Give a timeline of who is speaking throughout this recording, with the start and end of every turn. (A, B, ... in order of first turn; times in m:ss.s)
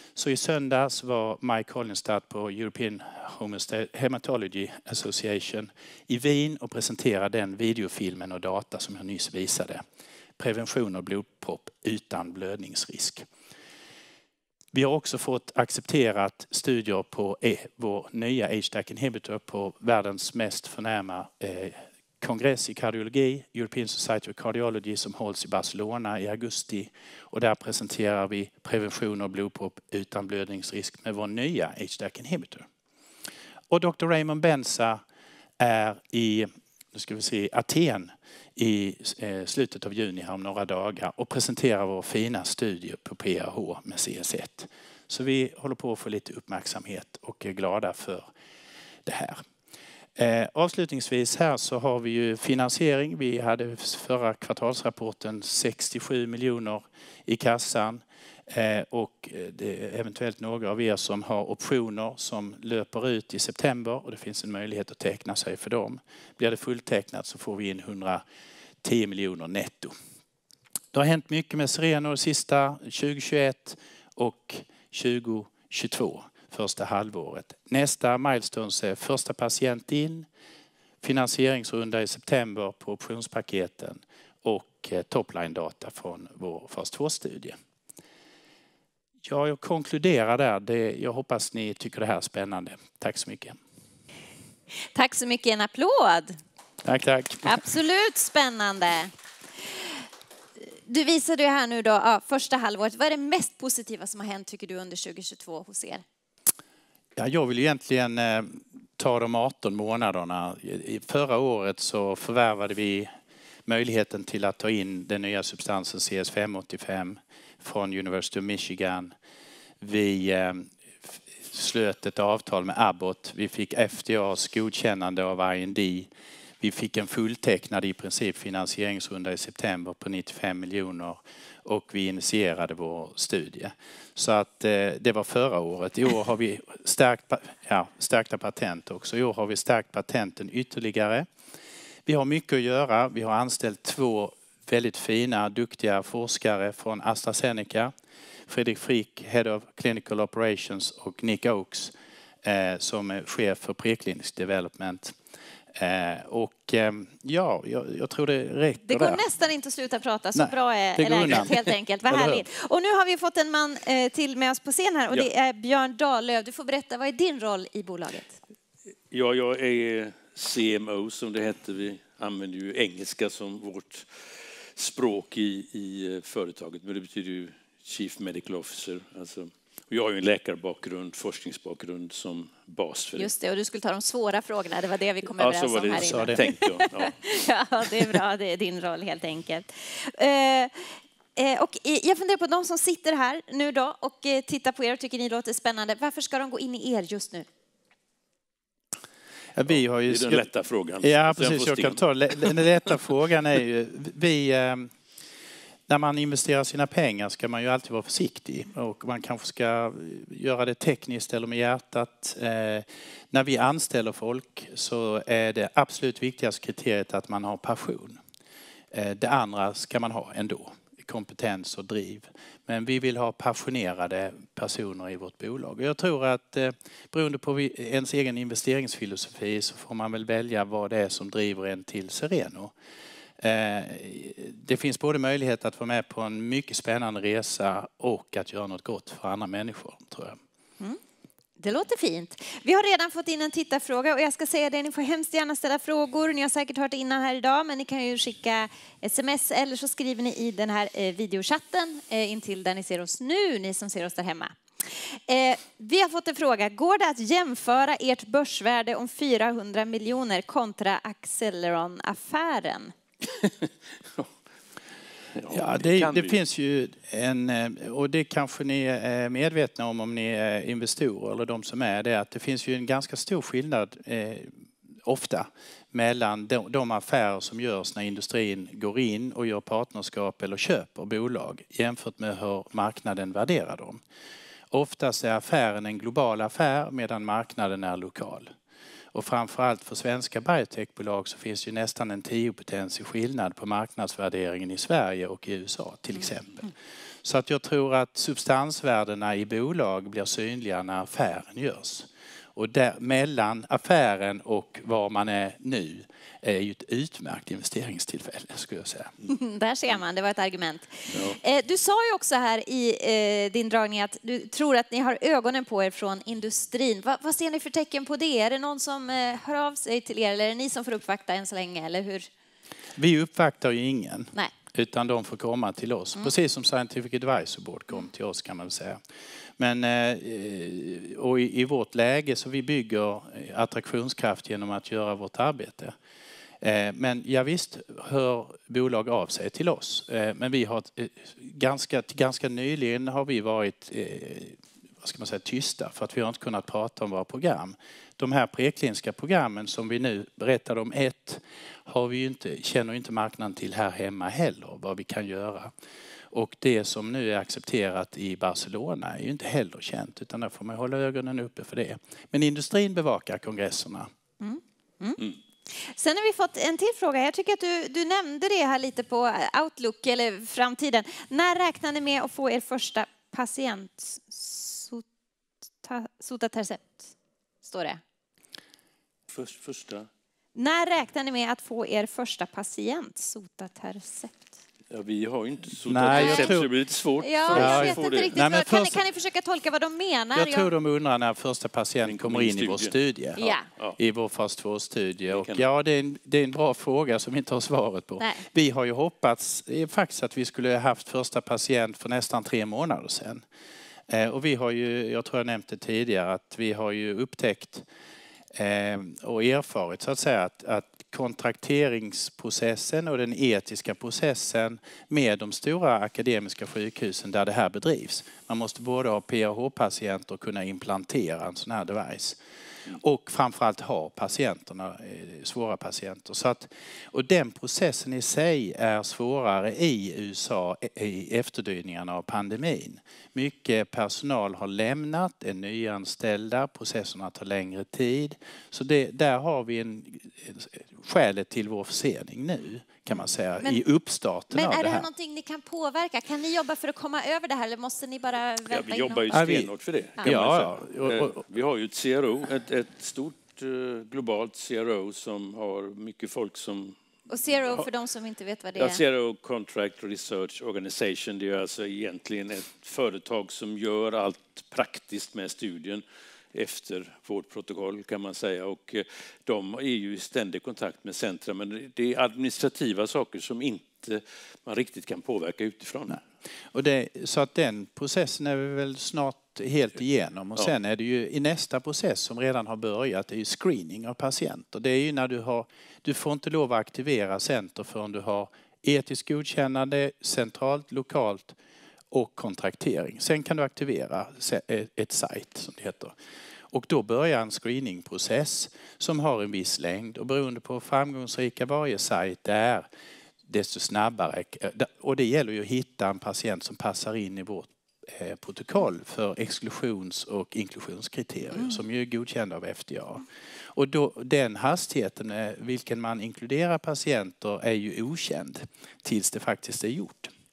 0:00.2-0:09.8 A
0:10.4-0:13.2 A
0:14.7-0:32.7 A
0:33.7-0:35.0 A
0:35.6-0:48.3 A
0:49.1-0:49.4 A
0:50.2-1:08.2 A
1:08.8-1:09.9 A
1:10.9-1:20.3 A
1:21.0-1:27.6 A
1:29.2-1:33.6 A
1:35.0-1:36.4 B
1:36.8-1:37.6 A
1:37.4-1:40.0 B
1:40.6-1:46.0 B
1:47.2-1:53.1 A
1:53.7-1:59.1 A
1:59.8-2:06.1 A
2:06.6-2:21.3 A
2:22.1-2:27.9 A
2:28.5-2:35.2 A
2:35.8-2:39.2 A
2:38.9-2:48.4 B
2:40.4-2:42.4 A
2:49.1-2:54.1 C
2:54.8-3:03.3 C
3:03.2-3:17.5 B
3:05.4-3:07.3 C
3:06.0-3:06.4 A
3:19.6-3:20.5 A
3:19.7-3:22.6 C
3:21.0-3:24.9 A
3:25.9-3:38.2 A
3:38.9-3:52.7 A
3:53.4-4:00.4 A
4:01.6-4:22.9 B
4:23.3-4:24.3 C
4:25.4-4:26.4 C
4:25.5-4:44.0 A
4:44.7-4:48.5 A
4:49.1-4:56.7 A
4:57.2-5:09.1 A
5:09.3-5:22.3 B
5:23.0-5:29.0 A
5:29.6-5:35.9 A
5:36.6-5:55.7 A
5:56.3-6:04.1 A
6:04.4-6:15.0 B
6:15.8-6:18.0 B
6:19.3-6:20.1 C
6:20.6-6:24.5 B
6:24.9-6:28.3 C
6:25.9-6:26.7 A
6:26.1-6:26.6 B
6:27.2-6:30.7 B
6:27.5-6:29.0 A
6:30.4-6:43.4 A
6:32.0-6:32.9 C
6:33.4-6:33.7 B
6:35.3-6:35.6 C
6:44.1-6:47.8 A
6:48.5-7:02.4 A
7:02.9-7:25.1 A
7:24.5-7:29.4 B
7:28.7-7:37.0 C
7:29.3-7:29.7 A
7:30.2-7:31.4 A
7:37.3-7:39.0 B
7:38.8-7:56.2 C
7:56.7-8:11.6 A
8:12.1-8:16.2 A
8:16.7-8:22.9 A
8:23.5-8:33.2 A
8:33.8-8:40.3 A